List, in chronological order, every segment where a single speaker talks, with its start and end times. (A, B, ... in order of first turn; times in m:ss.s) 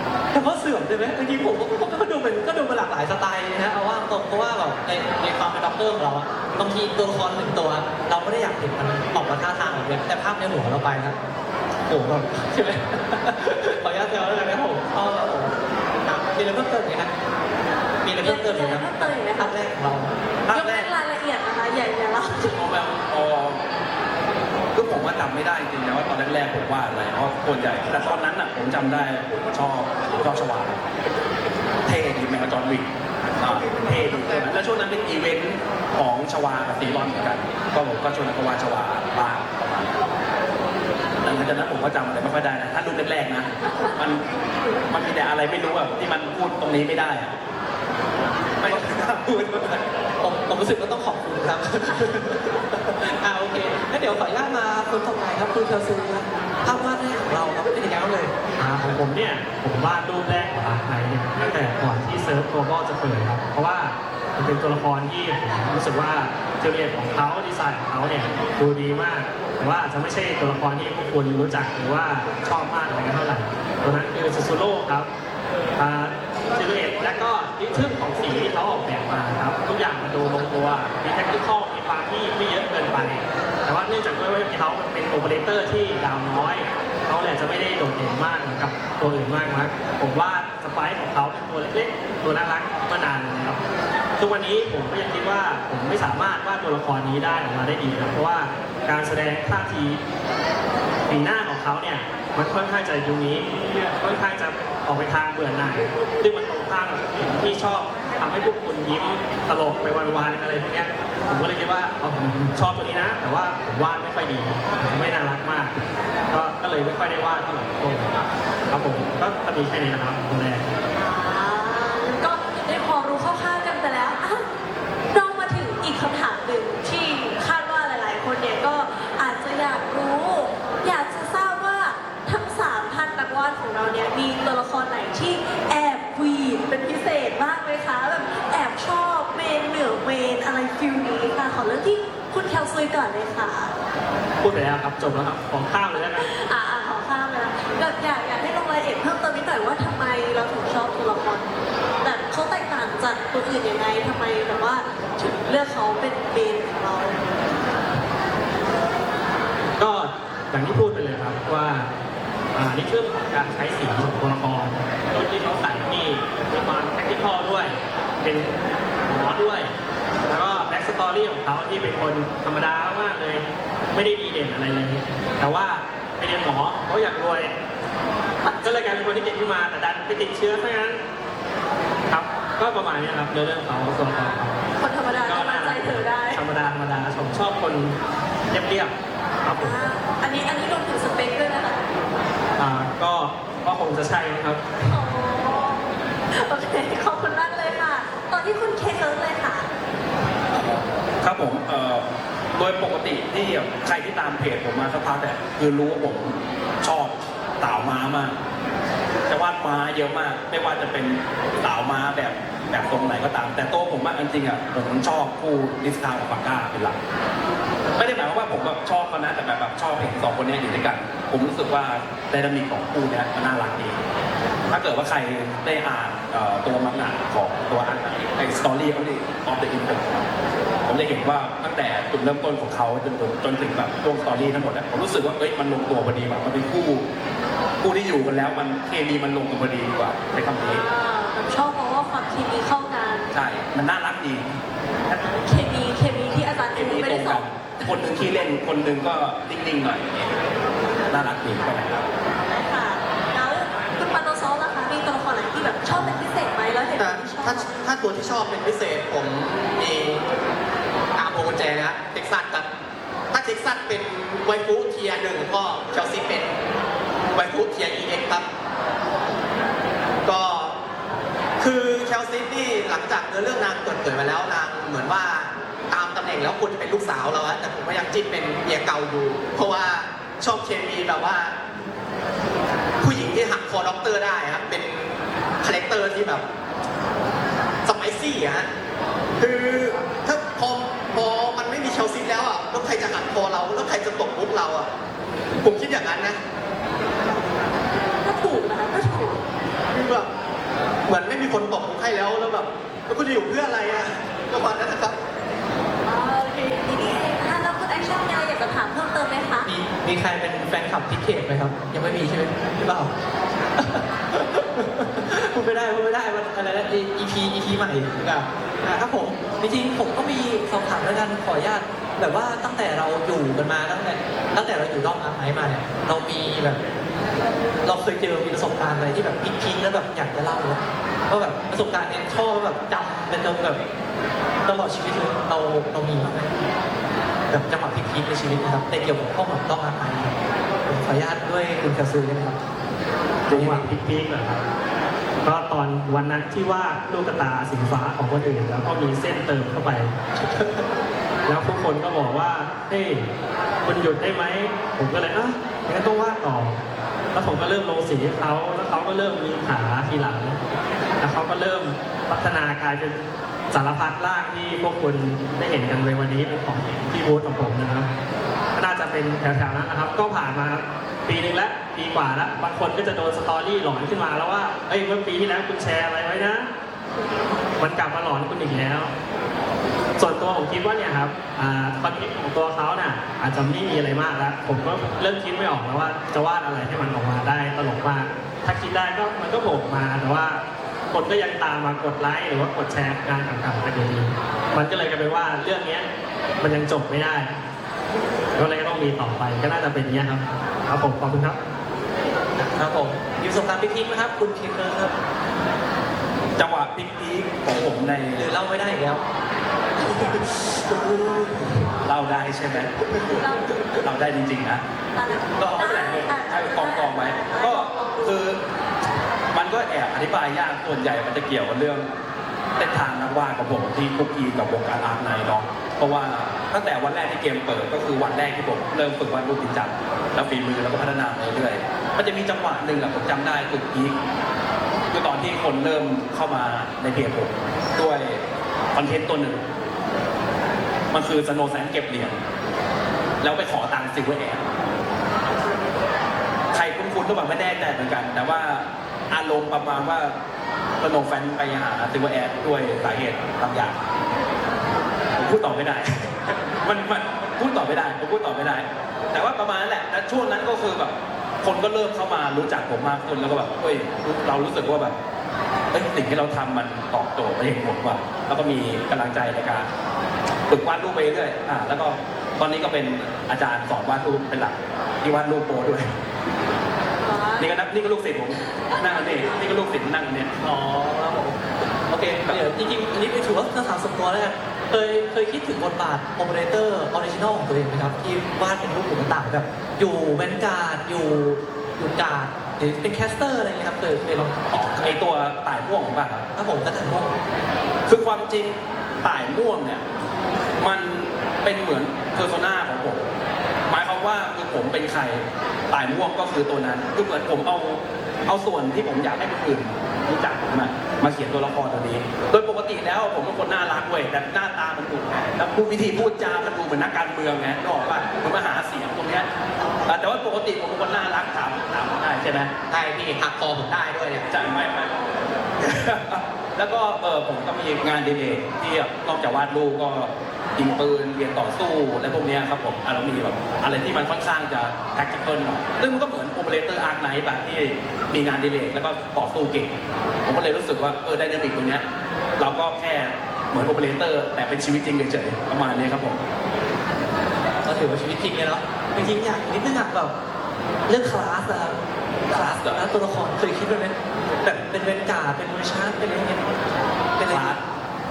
0:00.3-0:11.2 A
0:11.9-0:17.1 A
0:18.0-0:20.8 A
0:18.2-0:19.5 B
0:20.5-0:22.6 B
0:20.5-0:20.9 C
0:22.5-0:23.6 C
0:24.8-0:30.8 C
0:31.9-0:40.0 C
0:41.2-0:44.2 C
0:44.9-0:47.4 C
0:48.6-0:49.8 C
0:48.6-0:49.2 A
0:50.2-0:58.4 A
0:58.6-1:15.1 D
1:15.8-1:33.6 D
1:34.2-1:40.0 D
1:41.1-1:58.1 D
1:58.7-2:00.6 D
2:01.0-2:04.5 B
2:05.1-2:23.7 B
2:24.4-2:26.3 D
2:26.1-2:37.3 B
2:39.8-2:41.9 D
2:42.6-2:49.7 D
2:50.3-2:57.6 D
2:58.4-2:58.7 B
2:58.6-3:01.0 D
3:02.1-3:04.6 D
3:04.8-3:06.4 B
3:05.2-3:08.0 D
3:08.5-3:09.9 D
3:09.6-3:11.8 B
3:12.6-3:14.9 D
3:14.8-3:19.7 B
3:20.6-3:22.0 C
3:22.6-3:28.4 C
3:29.3-3:37.0 C
3:37.9-3:44.0 C
3:44.7-3:50.3 C
3:50.8-3:57.1 C
3:57.8-4:00.9 C
4:00.7-4:03.3 B
4:03.3-4:04.5 C
4:05.1-4:08.0 B
4:06.7-4:10.4 C
4:11.1-4:12.1 C
4:12.5-4:17.7 B
4:17.0-4:20.2 E
4:21.2-4:22.7 E
4:23.3-4:26.6 E
4:27.3-4:28.5 E
4:30.2-4:30.8 E
4:31.6-4:41.6 E
4:43.0-4:46.4 E
4:47.8-4:48.7 E
4:49.4-4:54.9 E
4:55.6-4:56.4 E
4:58.2-4:59.4 B
4:59.9-5:00.3 E
5:01.1-5:05.2 E
5:06.0-5:09.7 B
5:09.6-5:13.2 A
5:13.8-5:26.8 A
5:27.8-5:33.8 A
5:34.6-5:36.6 A
5:37.5-5:42.7 A
5:43.5-5:44.6 D
5:43.5-5:43.8 C
5:45.4-5:50.2 D
5:50.4-5:50.9 A
5:51.5-5:53.3 D
5:53.8-5:56.8 D
5:57.3-6:00.6 D
6:01.2-6:03.2 D
6:03.7-6:08.1 D
6:08.8-6:16.7 D
6:17.8-6:19.1 D
6:20.2-6:36.1 D
6:36.6-6:37.5 D
6:38.6-6:41.6 D
6:42.6-6:45.2 A
6:46.6-6:48.5 C
6:48.4-6:49.2 A
6:50.0-6:51.9 A
6:52.0-6:52.9 C
6:53.2-6:53.8 B
6:53.9-6:54.8 C
6:55.2-6:58.4 B
6:55.6-6:58.6 C
6:59.5-7:02.1 C
7:02.8-7:14.2 C
7:15.1-7:18.4 C
7:18.9-7:19.6 C
7:21.1-7:22.4 C
7:23.4-7:24.7 C
7:26.7-7:30.3 C
7:31.0-7:34.0 C
7:35.4-7:45.2 C
7:45.9-7:49.9 C
7:50.7-7:56.1 C
7:57.2-7:57.7 B
7:57.6-8:00.5 C
7:58.9-7:59.5 B
8:00.6-8:15.2 A
8:14.7-8:16.5 C
8:16.6-8:17.4 A
8:18.1-8:20.0 C
8:20.8-8:23.3 C
8:23.9-8:39.5 C
8:40.1-8:42.7 C
8:42.9-8:44.5 E
8:44.5-9:02.0 C
9:02.6-9:06.4 C
9:07.8-9:10.3 A
9:11.1-9:12.0 A
9:12.5-9:16.8 A
9:12.5-9:13.0 C
9:17.4-9:17.8 A
9:17.5-9:17.8 C